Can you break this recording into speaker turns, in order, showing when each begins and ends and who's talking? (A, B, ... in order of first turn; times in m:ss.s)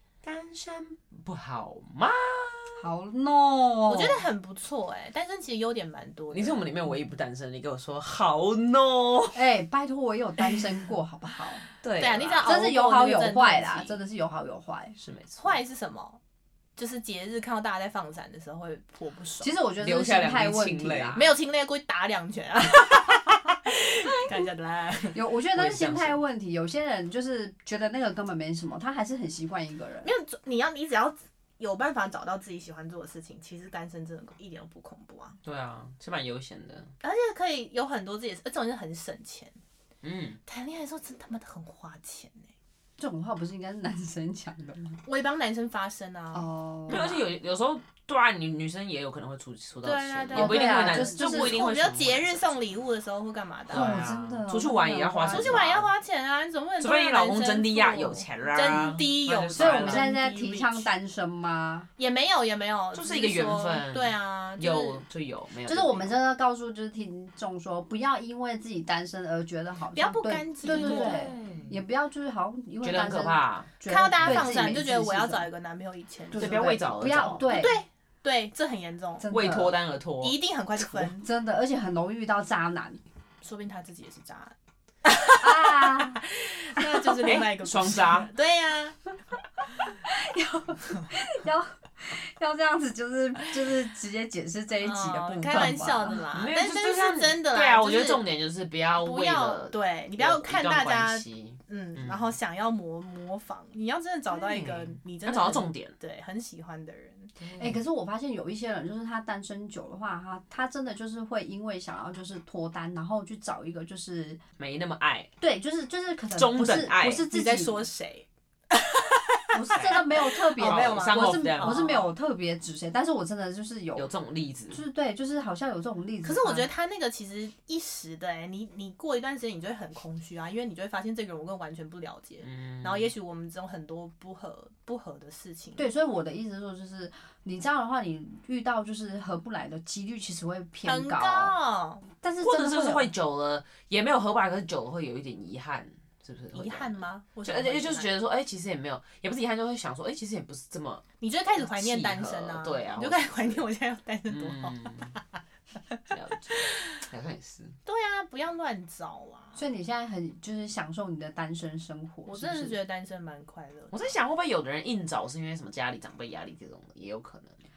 0:00.2-0:02.9 A
0:02.8-0:04.2 B
0:03.9-0:06.6 C
0:06.3-0:09.4 A
0:09.3-0:11.6 B
0:11.8-0:12.6 A
0:12.0-0:13.9 C
0:12.4-0:15.0 B
0:15.0-0:15.6 A
0:15.4-0:16.2 C
0:16.8-0:19.5 C
0:19.4-0:21.2 B
0:19.8-0:21.3 A
0:21.2-0:25.2 C
0:25.1-0:30.1 B
0:25.5-0:26.2 A
0:30.0-0:35.4 C
0:35.4-0:36.9 A
0:37.0-0:39.6 C
0:40.0-0:40.4 A
0:40.5-0:42.5 C
0:43.0-0:45.0 B
0:45.0-0:47.0 C
0:46.3-0:47.2 B
0:46.9-0:52.4 A
0:49.8-0:54.0 C
0:50.4-0:51.6 B
0:53.7-0:55.6 B
0:53.7-0:55.9 A
0:55.3-1:00.9 C
0:56.8-1:00.1 A
0:59.5-1:01.9 B
1:02.0-1:05.0 C
1:02.9-1:06.1 A
1:05.7-1:15.5 B
1:10.0-1:11.3 C
1:10.6-1:11.8 A
1:12.8-1:13.7 A
1:13.9-1:19.3 C
1:14.2-1:14.7 A
1:16.3-1:17.8 B
1:16.4-1:17.6 A
1:19.2-1:19.8 B
1:19.3-1:20.4 A
1:20.2-1:21.2 C
1:21.2-1:23.0 B
1:23.4-1:24.5 C
1:25.1-1:29.0 C
1:25.4-1:26.2 B
1:26.8-1:27.4 B
1:27.2-1:28.3 A
1:30.0-1:36.2 B
1:34.8-1:38.2 C
1:36.3-1:42.3 A
1:39.0-1:47.3 C
1:44.3-1:45.9 A
1:47.4-1:47.8 A
1:47.6-1:54.4 B
1:54.6-1:55.3 A
1:55.4-1:57.9 B
1:56.3-1:57.3 A
1:57.3-2:02.1 C
1:59.5-2:04.1 B
1:59.7-2:00.0 A
2:00.6-2:02.0 A
2:04.0-2:04.8 A
2:04.7-2:06.7 B
2:06.2-2:15.8 C
2:12.4-2:13.1 A
2:15.8-2:21.5 B
2:20.8-2:22.0 C
2:22.2-2:23.1 B
2:22.4-2:31.0 A
2:26.5-2:28.1 C
2:31.2-2:35.4 C
2:31.6-2:33.6 A
2:34.3-2:35.2 A
2:36.1-2:37.8 A
2:36.5-2:37.0 C
2:37.9-2:39.6 C
2:39.6-2:42.8 B
2:42.3-2:44.0 C
2:43.9-2:47.6 A